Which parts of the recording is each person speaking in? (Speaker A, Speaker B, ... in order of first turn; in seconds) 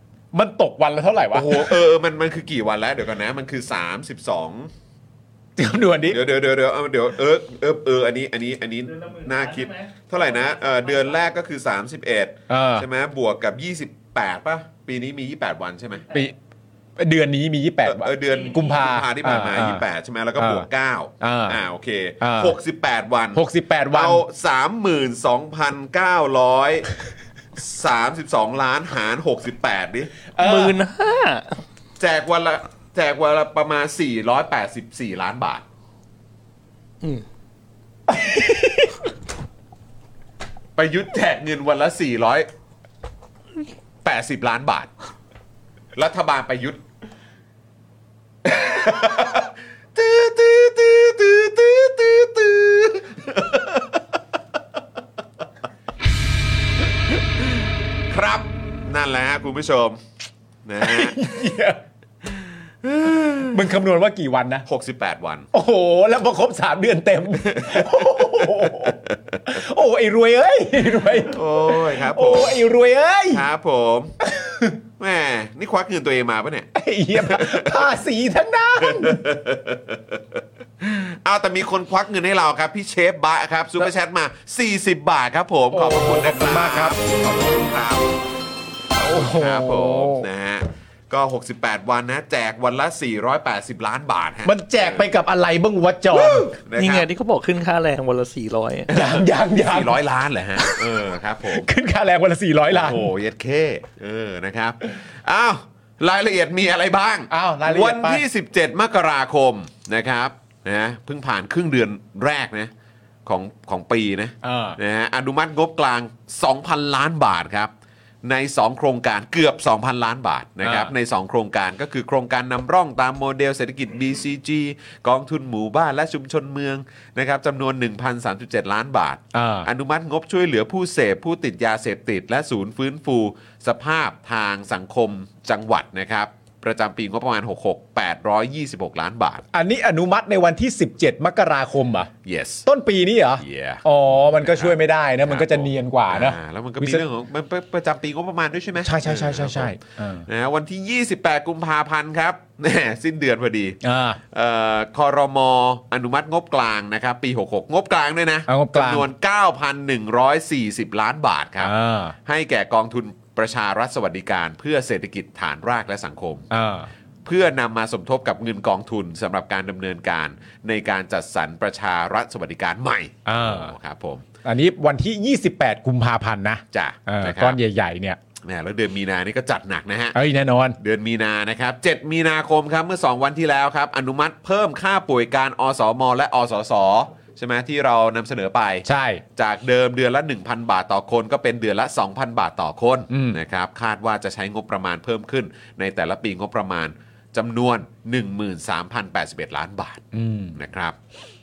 Speaker A: 0.3-1.8, 5.6-6.2, 12.5-12.8, 17.0-19.8, 20.4-20.7, 21.2-21.6, 22.2-22.5, 23.3-24.2, 30.3-30.8, 38.1-38.9, 60.8-61.8, 63.5-64.6, 65.5-73.4, 74.2-74.8, 76.7-79.2, 85.7-87.0, 89.0-90.2, 94.4-96.5, 98.9-100.0, 100.6-100.8, 101.4-103.0, 107.3-108.2, 114.4-114.8, 120.6-120.9, 129.3-129.7, 139.5-142.1, 142.6-147.0, 148.8-150.2, 153.8-154.2, 158.5-159.1, 161.6-162.2, 166.5-166.9, 173.2-173.7, 174.4-178.2, 180.1-180.8, 188.8-189.2, 193.1-193.4, 200.1-200.6
Speaker B: 1.3-4.7, 6.1-16.1, 17.8-26.9, 27.6-30.1, 32.0-35.6, 40.7-42.5, 44.0-44.9, 45.9-46.8, 48.4-54.2, 57.1-60.0, 60.6-61.2, 62.6-63.7, 64.7-65.5, 67.4-69.4, 71.0-72.6, 73.3-74.1, 75.0-77.9, 78.8-88.2, 89.2-95.1, 96.1-97.1, 98.9-101.7, 102.7-112.7, 113.2-117.7, 118.2-139.4, 142.2-142.6, 143.4-143.8, 144.4-153.8, 154.3-161.7, 162.2-166.5, 167.2-174.2, 176.7-177.6, 178.4-180.2, 180.8-200.9
Speaker C: 30.4-31.6, 96.8-98.9